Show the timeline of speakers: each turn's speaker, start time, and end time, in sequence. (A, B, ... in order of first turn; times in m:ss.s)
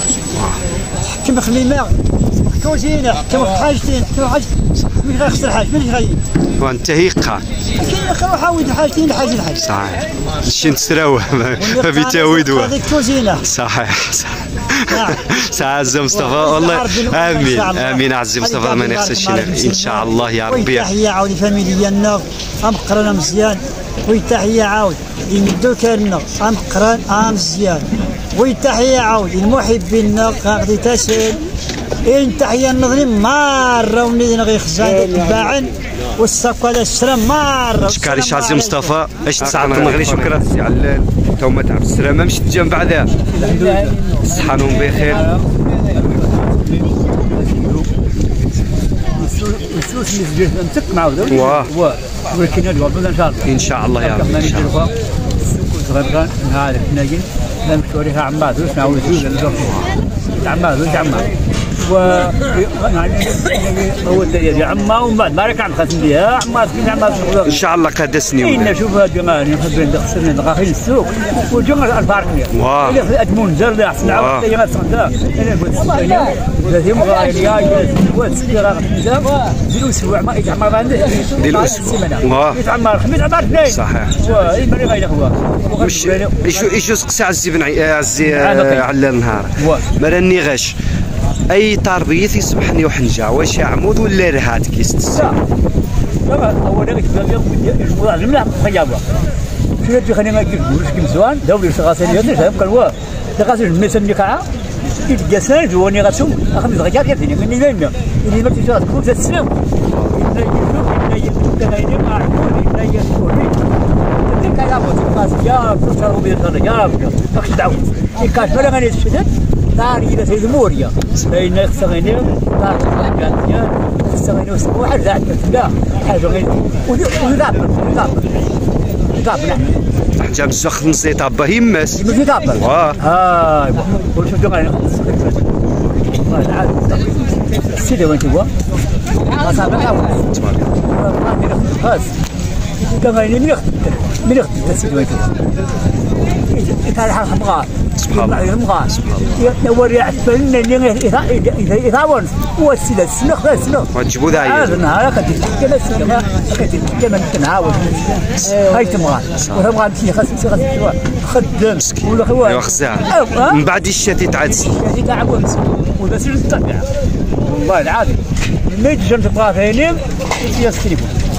0:01.0-0:06.2 A
0:06.6-0:07.4 B
0:07.7-0:09.6 A
0:09.6-0:12.8 B
0:11.5-0:13.4 A
0:13.4-0:20.9 B
0:14.9-0:15.2 A
0:16.1-0:31.4 A
0:32.0-0:38.9 A
0:37.8-0:43.1 B
0:43.3-0:47.9 C
0:44.2-0:45.2 B
0:48.1-0:48.6 B
0:49.1-0:54.9 C
0:51.3-0:51.7 B
0:53.4-0:54.9 B
0:55.4-0:59.8 C
0:59.6-0:59.9 B
1:00.4-1:01.3 C
1:01.8-1:07.6 C
1:07.4-1:08.8 B
1:08.4-1:26.7 C
1:12.5-1:13.0 B
1:14.0-1:14.4 B
1:21.3-1:22.6 B
1:23.6-1:24.2 B
1:25.7-1:30.8 B
1:28.2-1:28.9 C
1:29.6-1:29.9 C
1:31.5-1:35.4 B
1:35.1-1:35.4 C
1:36.2-1:39.0 C
1:39.8-1:44.4 C
1:45.0-2:08.4 C
2:09.1-2:09.8 C
2:10.2-2:13.0 B
2:11.9-2:18.5 C
2:19.2-2:20.3 C
2:20.3-2:20.7 B
2:20.8-2:22.1 C
2:22.8-2:25.3 C
2:26.5-2:43.6 C
2:28.0-2:29.4 B
2:33.9-2:34.8 B
2:39.4-2:39.6 B
2:41.7-2:44.8 B
2:44.5-2:46.9 C
2:47.4-2:51.1 C